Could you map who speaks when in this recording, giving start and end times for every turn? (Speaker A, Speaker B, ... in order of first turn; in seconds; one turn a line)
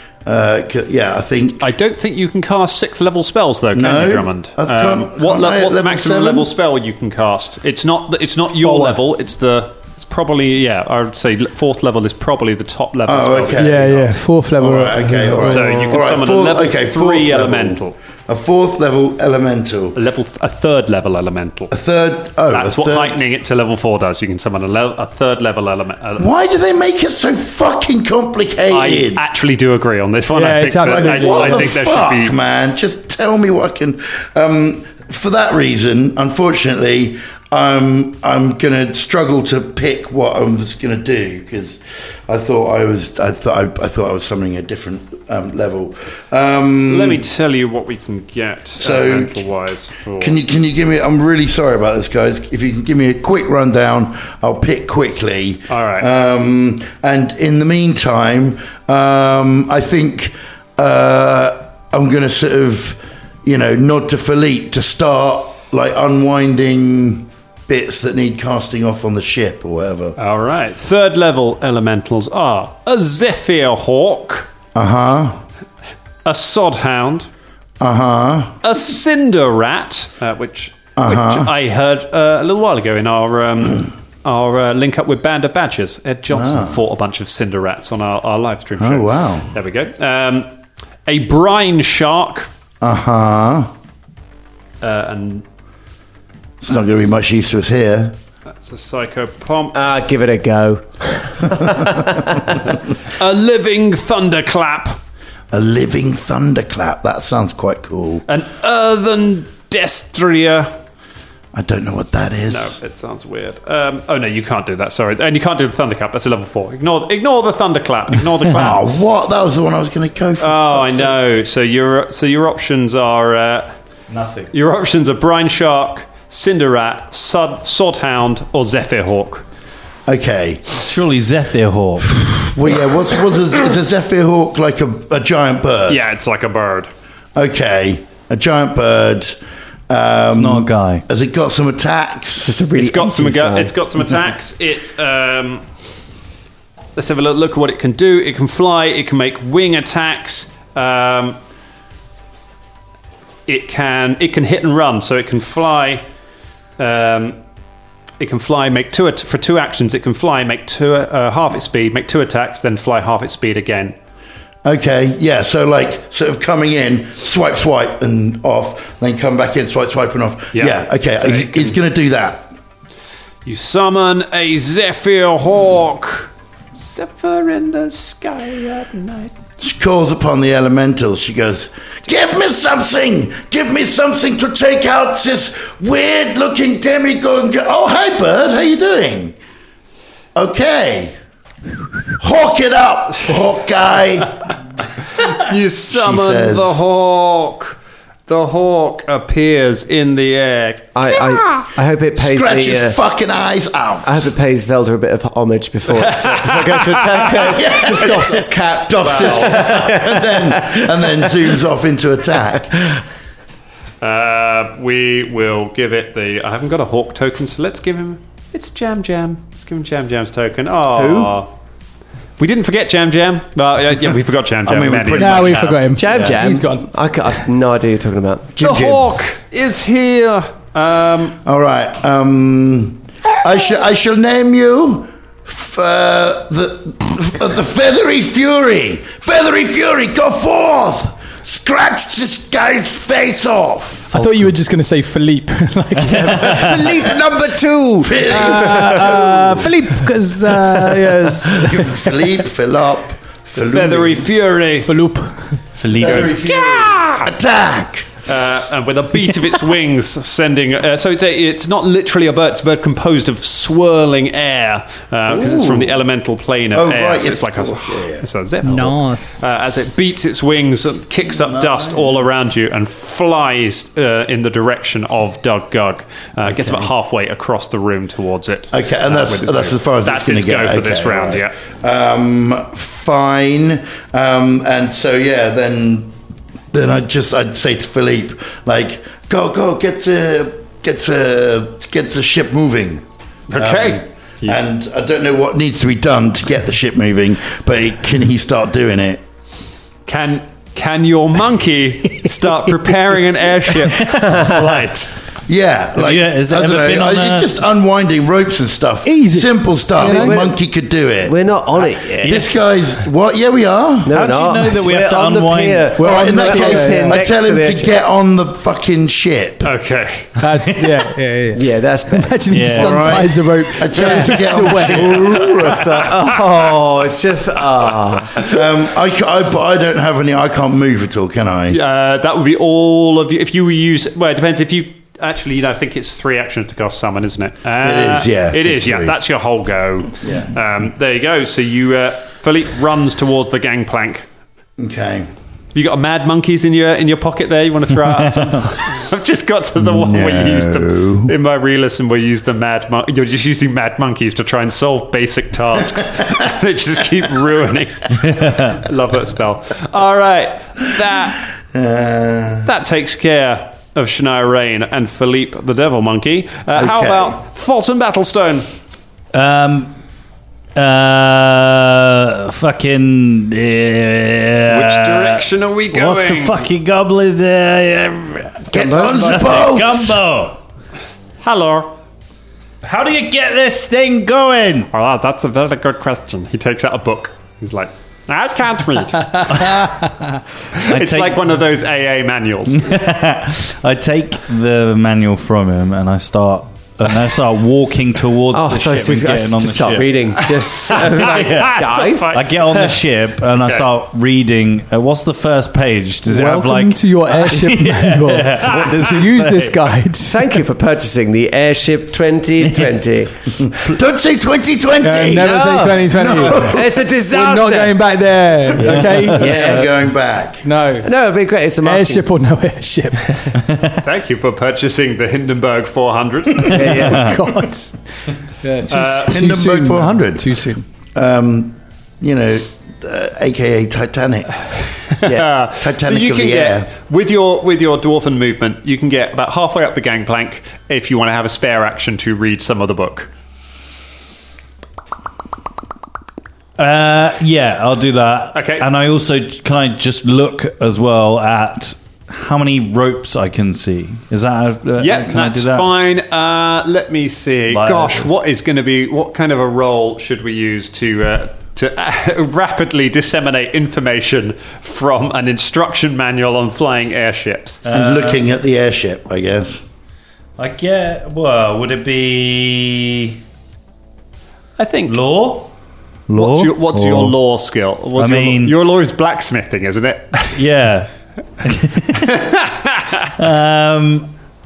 Speaker A: 0.2-1.7
Speaker B: 1.6-14.1
Speaker A: 3.7-6.5
Speaker C: 8.5-9.0
Speaker A: 13.1-20.0
Speaker C: 13.6-16.0
Speaker B: 15.4-18.0
Speaker B: 20.0-21.7
Speaker A: 21.7-23.2
Speaker B: 22.5-26.3
Speaker A: 26.2-29.3
Speaker B: 28.7-32.3
Speaker C: 30.3-31.7
Speaker A: 30.8-47.2
Speaker B: 46.9-50.4
Speaker A: 48.8-49.4
Speaker A: 50.2-70.2
Speaker B: 55.7-56.1
Speaker B: 70.2-74.5
Speaker A: 74.8-75.4
Speaker B: 76.2-77.3
Speaker A: 77.8-78.6
Speaker B: 78.6-90.5
Speaker A: 81.0-81.5
Speaker A: 86.3-86.8
Speaker A: 88.8-89.5
Speaker B: 91.1-92.5
Speaker A: 92.8-93.7
Speaker B: 94.8-95.5
Speaker A: 96.6-98.2
Speaker B: 98.5-100.1
Speaker D: 99.7-102.6
Speaker B: 103.2-105.0
Speaker A: 105.5-108.3
Speaker B: 108.3-110.7
Speaker A: 111.5-112.8
Speaker B: 112.5-118.8
Speaker A: 118.5-121.2
Speaker B: 120.4-123.7
Speaker E: 124.1-124.5
Speaker B: 124.5-129.4
Speaker A: 130.1-130.7
Speaker E: 130.7-132.3
Speaker A: 132.2-136.0
Speaker B: 135.9-136.9
Speaker A: 137.3-139.4
Speaker A: 139.9-142.6
Speaker E: 140.3-141.0
Speaker D: 142.4-143.7
Speaker B: 142.8-145.6
Speaker B: 147.0-151.4
Speaker B: 153.5-156.0
Speaker B: 156.8-157.4
Speaker B: 158.2-164.0
Speaker A: 164.6-172.5
Speaker B: 170.5-171.8
Speaker B: 173.4-179.3
Speaker A: 179.6-189.4
Speaker A: 190.3-191.1
Speaker A: 192.2-194.4
Speaker B: 195.1-201.4
Speaker A: 195.9-196.8
Speaker D: 200.9-203.0
Speaker A: 202.2-204.1
Speaker D: 204.1-211.3
Speaker B: 205.9-207.5
Speaker A: 207.3-213.0
Speaker B: 209.0-209.9
Speaker B: 214.0-221.5
Speaker D: 220.9-221.3
Speaker B: 222.4-225.7
Speaker A: 224.7-226.5
Speaker C: 225.2-226.9
Speaker D: 226.0-228.5
Speaker A: 228.6-229.2
Speaker B: 228.6-231.4
Speaker A: 231.4-244.1
Speaker C: 244.1-246.8
Speaker D: 246.1-249.2
Speaker A: 248.0-249.8
Speaker C: 248.2-252.0
Speaker D: 250.6-251.1
Speaker A: 251.5-254.3
Speaker B: 253.6-254.9
Speaker C: 254.8-255.6
Speaker E: 255.8-256.4
Speaker A: 255.9-258.1
Speaker B: 256.0-257.3
Speaker B: 258.3-281.5
Speaker A: 265.3-266.1
Speaker A: 266.7-268.2
Speaker C: 268.6-269.4
Speaker A: 278.7-286.1
Speaker A: 286.7-299.2
Speaker B: 293.5-294.6
Speaker B: 300.1-305.1
Speaker D: 304.2-304.6
Speaker E: 304.5-304.9
Speaker A: 305.5-311.4
Speaker E: 306.0-307.5
Speaker C: 309.1-310.5
Speaker D: 310.0-310.6
Speaker D: 311.2-312.4
Speaker A: 312.2-314.1
Speaker D: 314.1-317.9
Speaker E: 314.1-316.0
Speaker C: 316.0-317.2
Speaker A: 316.0-319.7
Speaker B: 319.6-320.3
Speaker C: 320.4-325.3
Speaker D: 321.6-322.5
Speaker E: 322.5-323.2
Speaker A: 322.8-325.9
Speaker D: 323.9-328.6
Speaker A: 328.4-331.8
Speaker B: 331.7-344.3
Speaker A: 337.8-339.2
Speaker A: 340.2-340.5
Speaker A: 344.8-345.3
Speaker B: 345.7-361.4
Speaker A: 349.8-351.3
Speaker E: 358.3-358.6
Speaker A: 361.7-362.7
Speaker B: 362.6-368.7
Speaker A: 366.8-367.4
Speaker E: 369.3-369.9
Speaker E: 370.8-380.6
Speaker B: 374.7-376.7
Speaker A: 378.7-380.2
Speaker D: 378.7-379.4
Speaker B: 381.4-381.9
Speaker E: 382.8-384.9
Speaker B: 384.9-389.9
Speaker E: 389.5-389.9
Speaker B: 390.8-392.9
Speaker E: 390.8-391.4
Speaker E: 392.7-400.3
Speaker D: 398.5-402.6
Speaker B: 400.5-402.4
Speaker E: 401.3-409.2
Speaker C: 406.2-410.4
Speaker D: 410.3-413.6
Speaker A: 413.8-417.0
Speaker C: 415.0-419.7
Speaker D: 415.4-418.0
Speaker D: 418.8-419.9
Speaker A: 419.3-420.6
Speaker C: 420.6-421.1
Speaker D: 421.0-422.2
Speaker C: 421.8-423.4
Speaker B: 424.0-427.0
Speaker D: 426.7-427.3
Speaker E: 426.9-427.4
Speaker C: 427.0-428.0
Speaker C: 428.6-430.9
Speaker B: 428.9-429.4
Speaker A: 429.2-430.6
Speaker A: 431.1-434.5
Speaker B: 435.3-443.3
Speaker A: 435.8-436.9
Speaker E: 446.8-455.9
Speaker B: 448.6-448.9
Speaker B: 455.0-467.8
Speaker E: 457.7-458.3
Speaker E: 467.9-468.4
Speaker A: 467.9-469.8
Speaker E: 470.6-473.4
Speaker B: 474.8-475.2
Speaker E: 475.1-475.7
Speaker E: 476.3-477.4
Speaker B: 476.3-480.6
Speaker E: 478.2-478.8
Speaker E: 480.6-481.1
Speaker E: 481.6-482.4
Speaker B: 482.1-483.3
Speaker E: 483.4-484.3